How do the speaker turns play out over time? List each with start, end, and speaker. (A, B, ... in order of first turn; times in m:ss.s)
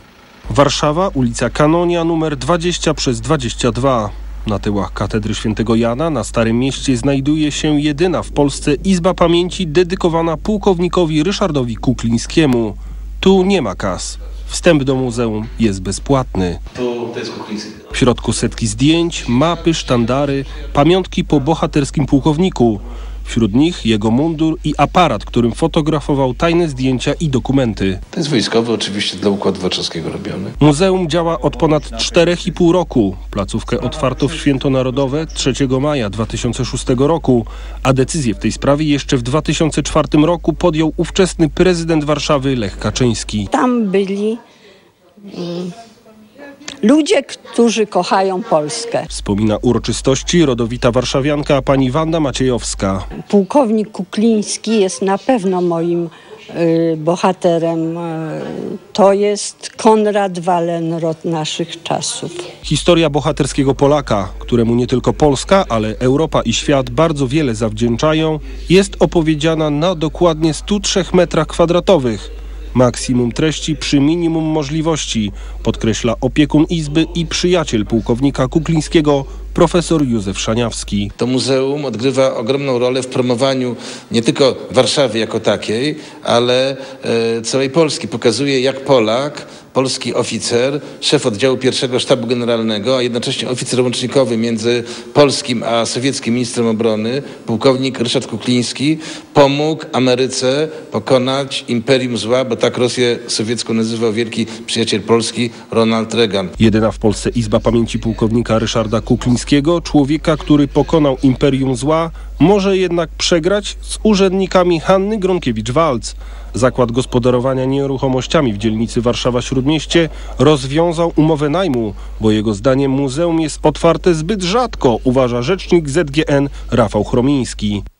0:00.5-0:16.6 A
0:16.8-0:17.8 B
0:17.9-0:28.0 A
0:28.1-0:30.6 B
0:30.6-0:43.5 A
0:43.5-0:44.4 C
0:45.3-0:45.7 C
0:46.8-0:49.1 C
0:49.1-0:53.0 A
0:53.2-1:02.5 C
1:02.6-1:21.1 A
1:21.2-1:46.5 B
1:46.6-2:07.8 A